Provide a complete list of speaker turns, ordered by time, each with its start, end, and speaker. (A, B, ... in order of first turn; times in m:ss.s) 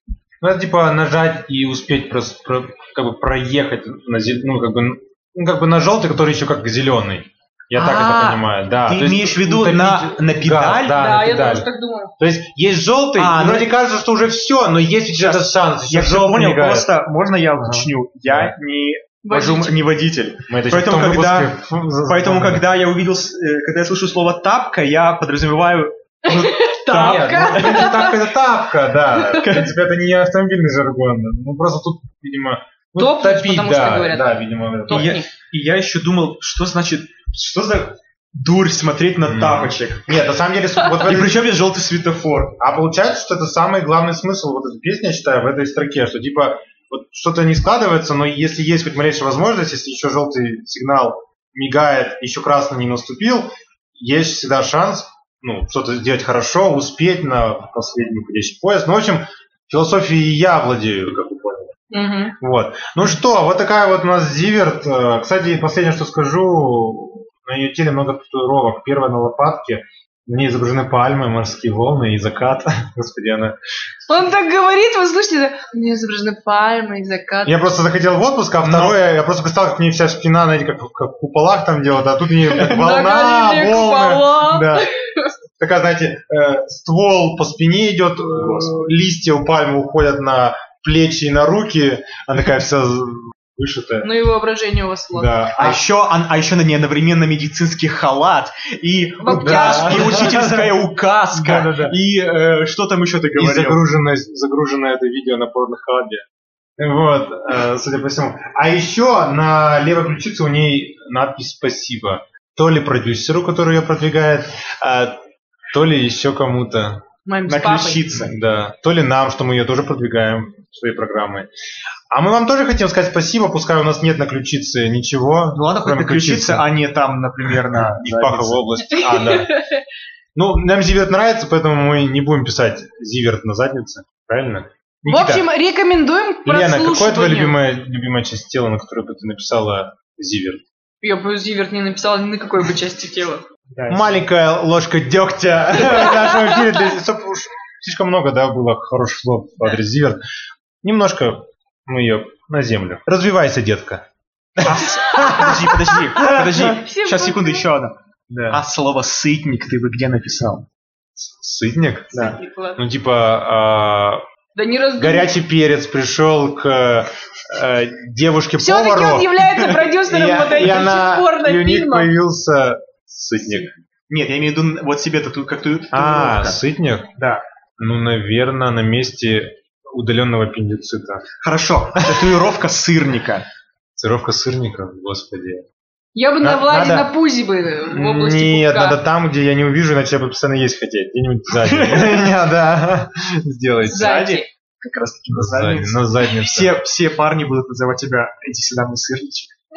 0:00.4-0:16.9 A
0:07.7-0:11.0 B
0:10.9-0:12.1 C
0:13.2-0:13.7 B
0:15.2-0:28.0 B
0:17.6-0:18.6 A
0:19.2-0:19.8 C
0:20.5-0:22.6 A
0:26.2-0:28.3 C
0:26.9-0:35.2 A
0:29.2-0:29.5 C
0:29.3-0:29.7 B
0:33.0-0:35.3 C
0:34.9-0:40.1 B
0:39.2-0:41.4 A
0:41.0-0:42.6 B
0:42.6-1:01.8 A
1:01.9-1:02.4 C
1:02.4-1:13.6 A
1:14.1-1:17.6 C
1:17.4-1:24.9 A
1:18.6-1:19.0 B
1:22.6-1:25.3 C
1:25.6-1:34.1 A
1:28.4-1:28.8 B
1:34.0-1:35.4 C
1:35.1-1:35.8 A
1:35.6-1:43.8 B
1:39.2-1:40.4 C
1:39.3-1:40.8 A
1:41.3-1:42.0 A
1:43.4-1:46.2 A
1:46.8-1:55.2 A
1:55.7-1:57.0 A
1:57.3-1:58.0 C
1:57.5-1:58.3 B
1:58.1-2:01.5 A
2:02.1-2:06.7 A
2:05.5-2:08.6 B
2:07.8-2:09.6 A
2:08.9-2:09.8 C
2:10.4-2:15.5 A
2:15.1-2:17.6 C
2:16.4-2:20.6 A
2:21.0-2:23.4 C
2:23.7-2:24.2 B
2:23.9-2:30.2 A
2:25.9-2:26.7 C
2:30.8-2:34.0 A
2:34.6-2:36.4 A
2:34.6-2:38.0 B
2:36.6-2:37.7 C
2:38.3-2:38.6 A
2:38.5-2:40.7 B
2:41.2-2:42.2 A
2:42.1-2:42.8 C
2:42.8-2:44.2 A
2:44.6-2:45.3 C
2:45.0-2:49.4 A
2:48.6-2:52.1 C
2:49.4-2:49.8 B
2:50.0-2:53.7 A
2:54.1-2:56.6 B
2:55.9-2:57.1 A
2:57.2-2:57.4 B
2:57.8-3:01.3 A
3:01.4-3:03.5 B
3:02.0-3:02.3 A
3:04.0-3:05.6 A
3:06.2-3:09.0 C
3:06.4-3:07.1 A
3:07.8-3:14.2 A
3:11.6-3:12.3 B
3:13.8-3:14.5 C
3:13.9-3:19.5 B
3:15.3-3:16.8 A